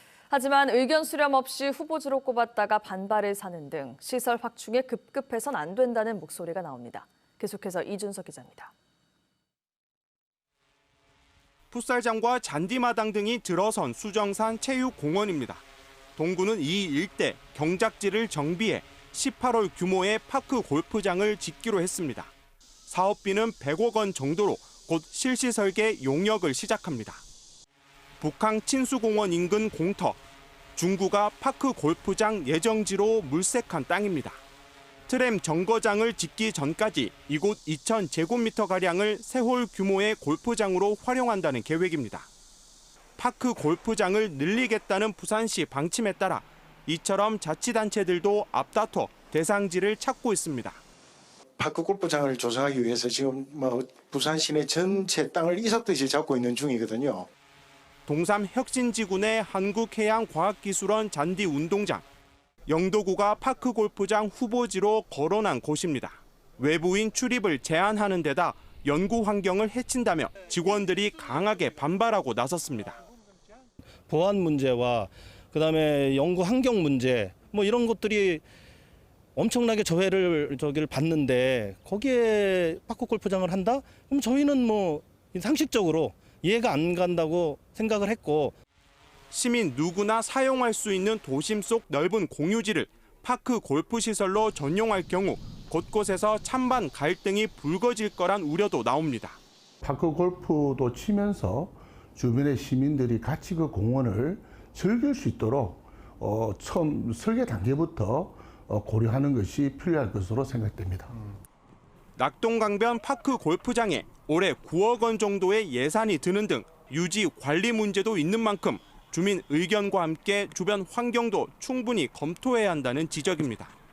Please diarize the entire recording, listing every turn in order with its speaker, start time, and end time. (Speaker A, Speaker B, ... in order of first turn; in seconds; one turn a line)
Speaker A: 0.3-8.7
Speaker B: 11.7-15.6
Speaker B: 16.2-22.3
Speaker B: 22.9-27.2
Speaker B: 28.2-30.2
Speaker B: 30.8-34.4
Speaker B: 35.1-42.3
Speaker B: 43.2-50.8
Speaker C: 51.6-57.3
Speaker B: 58.1-62.0
Speaker B: 62.7-73.0
Speaker D: 74.1-78.4
Speaker D: 79.3-88.5
Speaker B: 89.3-99.4
Speaker E: 99.8-111.2
Speaker B: 112.2-123.7